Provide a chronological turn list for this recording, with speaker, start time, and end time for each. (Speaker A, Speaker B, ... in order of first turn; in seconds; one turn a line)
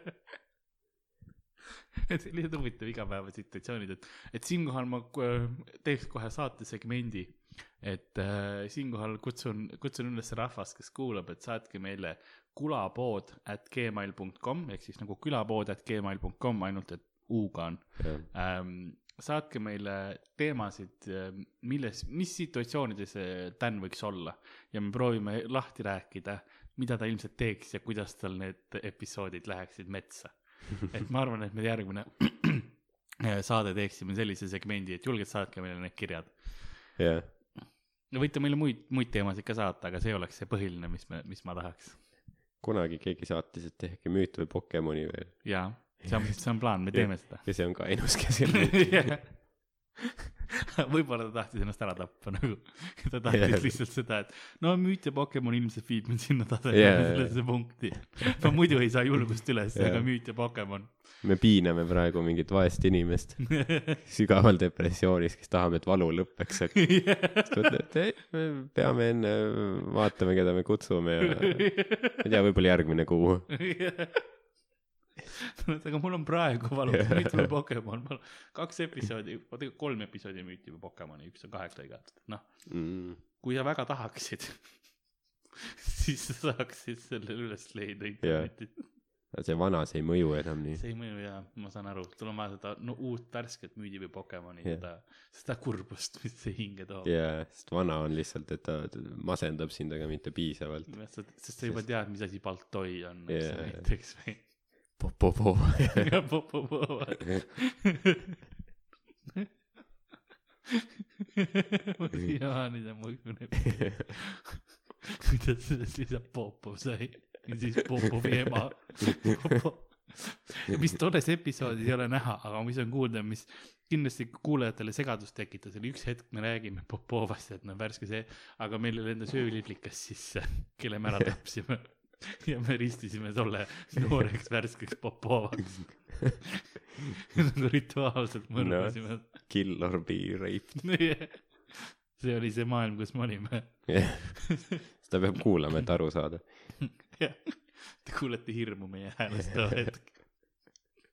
Speaker A: 2.1-37.0
Speaker B: 18.0-18.3
Speaker B: 37.0-37.3
Speaker A: 38.1-42.0
Speaker B: 42.6-49.3
Speaker A: 45.4-49.9
Speaker A: 50.8-61.2
Speaker B: 53.2-53.8
Speaker B: 56.7-58.0
Speaker B: 59.7-60.6
Speaker B: 61.2-73.6
Speaker A: 66.9-67.7
Speaker A: 71.6-72.2
Speaker A: 73.6-74.6
Speaker A: 75.6-85.2
Speaker B: 76.9-77.5
Speaker B: 82.7-83.2
Speaker A: 85.9-88.8
Speaker B: 88.2-90.8
Speaker A: 90.7-97.1
Speaker B: 97.0-102.6
Speaker A: 100.9-105.0
Speaker B: 103.3-106.3
Speaker A: 106.0-107.9
Speaker A: 112.0-114.7
Speaker A: 115.3-136.4
Speaker A: 137.4-139.3
Speaker B: 138.5-141.2
Speaker A: 140.8-144.3
Speaker B: 143.9-146.9
Speaker A: 147.0-150.5